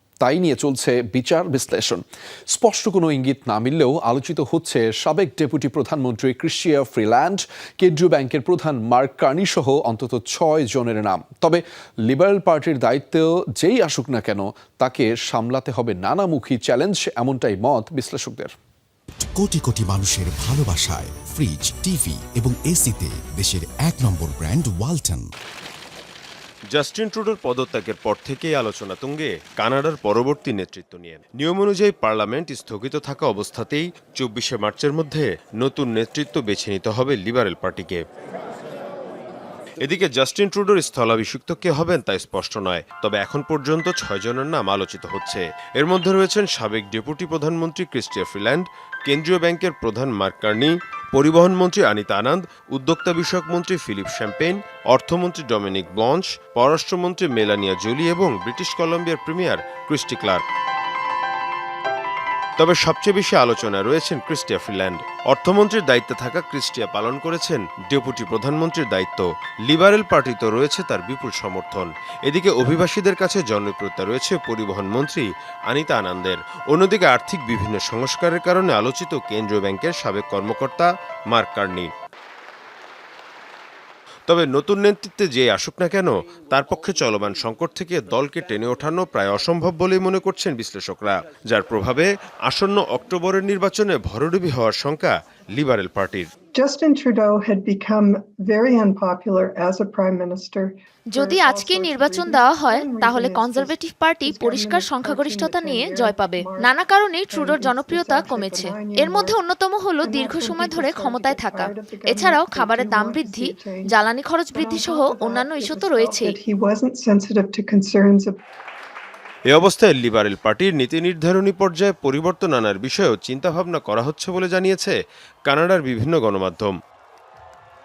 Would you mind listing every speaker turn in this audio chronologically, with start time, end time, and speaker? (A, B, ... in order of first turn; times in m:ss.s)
0:00.2-0:18.5 A
0:19.2-0:25.3 B
0:26.7-0:38.0 C
0:39.8-1:00.4 C
1:02.6-1:21.9 C
1:24.3-1:36.3 C
1:36.5-1:46.8 D
1:41.1-1:56.4 E
1:47.3-1:49.4 D
1:50.0-1:53.9 D
1:54.5-1:58.4 D
1:59.5-2:05.0 C
2:05.5-2:06.8 C